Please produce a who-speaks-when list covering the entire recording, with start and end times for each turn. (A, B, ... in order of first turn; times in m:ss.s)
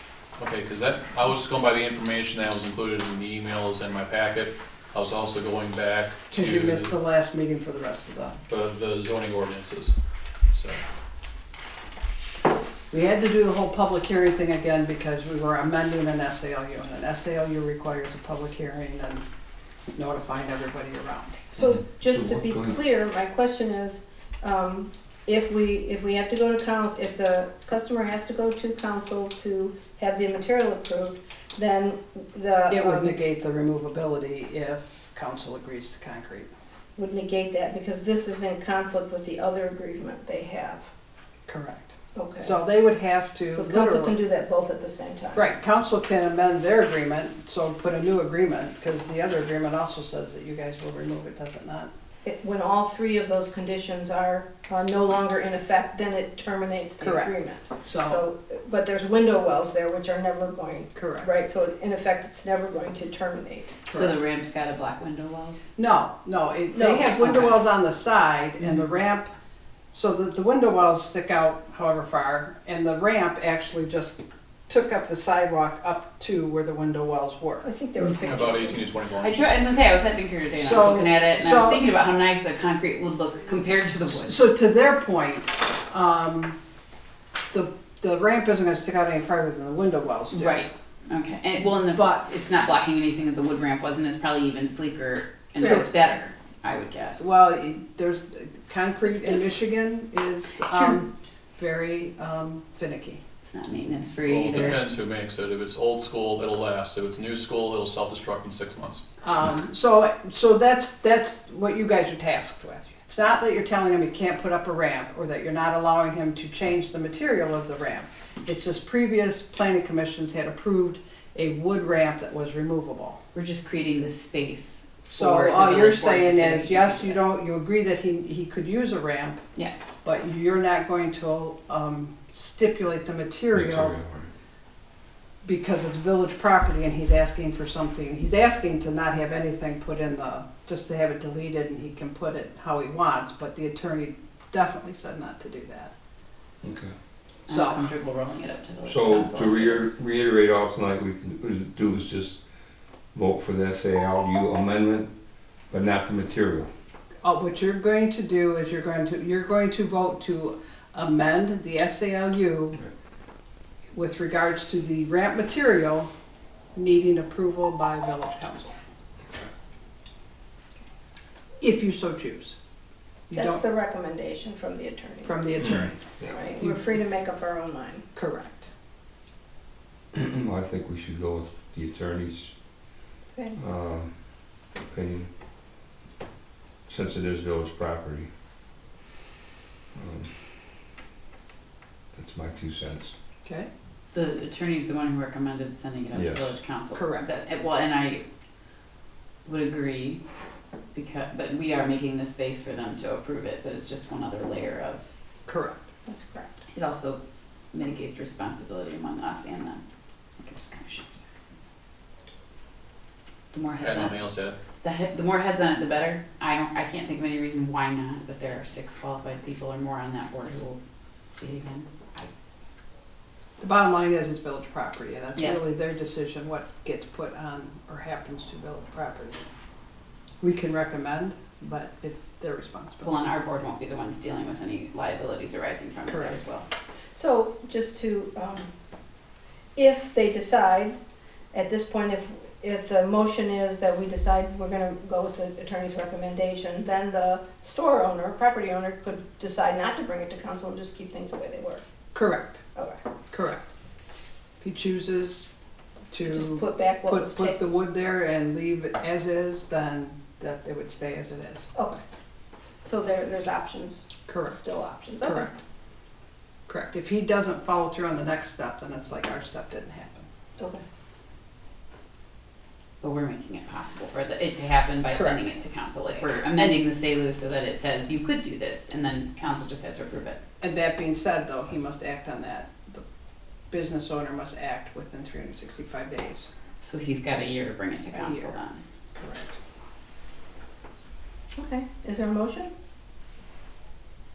0:00.4-0:07.0 A
0:06.3-0:08.4 B
0:08.5-0:10.0 A
0:10.5-0:10.8 A
0:12.9-0:19.2 B
0:19.9-0:21.6 B
0:21.5-0:33.2 C
0:22.0-0:22.8 D
0:32.7-0:36.5 B
0:37.0-0:40.9 C
0:41.5-0:44.2 B
0:42.1-0:42.6 C
0:43.5-0:45.5 C
0:45.3-0:51.9 B
0:52.2-1:03.8 C
0:57.0-0:57.3 B
0:57.8-0:58.2 B
1:01.0-1:01.3 B
1:03.9-1:05.7 E
1:03.9-1:04.2 B
1:05.8-1:09.3 B
1:06.7-1:07.2 C
1:07.2-1:07.6 E
1:09.9-1:17.7 B
1:17.6-1:18.9 C
1:18.0-1:19.7 A
1:19.2-1:24.4 E
1:20.6-1:21.8 B
1:24.1-1:26.6 B
1:27.5-1:30.7 B
1:30.3-1:37.3 E
1:31.8-1:32.2 B
1:35.6-1:35.9 B
1:37.2-1:43.2 B
1:40.7-1:41.0 E
1:43.4-1:44.8 E
1:44.2-1:49.0 A
1:49.2-2:03.2 B
2:03.3-2:07.2 E
2:05.1-2:09.4 B
2:10.0-2:14.0 B
2:13.5-2:14.3 D
2:15.4-2:25.9 B
2:26.6-2:26.9 D
2:27.5-2:29.9 E
2:27.5-2:27.8 B
2:28.8-2:32.4 D
2:33.1-2:35.1 D
2:35.7-2:36.7 D
2:37.2-2:42.8 B
2:43.9-2:46.1 B
2:46.8-2:48.8 B
2:51.6-2:52.6 B
2:53.3-2:53.6 B
2:53.3-2:55.5 C
2:55.2-2:55.9 B
2:56.3-2:58.0 C
2:56.6-2:57.0 B
2:58.1-2:58.7 B
3:00.1-3:02.6 D
3:03.6-3:05.3 D
3:06.9-3:08.3 D
3:09.9-3:10.3 D
3:12.1-3:13.1 D
3:14.1-3:18.2 E
3:16.1-3:16.5 D
3:16.9-3:17.2 B
3:19.4-3:20.2 E
3:20.9-3:25.0 E
3:25.4-3:25.8 B
3:26.0-3:26.6 C
3:26.7-3:27.2 E
3:27.7-3:29.8 E
3:30.4-3:31.3 E
3:33.5-3:34.2 E
3:33.8-3:34.6 A
3:34.8-3:40.8 E
3:41.3-3:42.3 E
3:43.6-3:49.4 B
3:50.4-3:53.3 B
3:53.0-3:56.6 E
3:56.1-3:56.4 B
3:57.1-3:58.7 C
3:59.8-4:01.0 C
4:01.5-4:11.8 C
4:12.1-4:12.6 B
4:13.3-4:13.6 B
4:14.6-4:15.5 B
4:16.1-4:21.7 B
4:16.2-4:17.6 C
4:21.7-4:22.0 C
4:22.8-4:25.5 C
4:24.3-4:24.6 B
4:25.2-4:25.6 B
4:26.7-4:30.3 B
4:33.0-4:40.4 E
4:35.1-4:35.5 B
4:40.6-4:43.0 B
4:43.7-4:46.5 B
4:46.8-4:48.8 E
4:48.1-4:48.6 B
4:49.2-4:49.6 B
4:51.5-4:52.7 C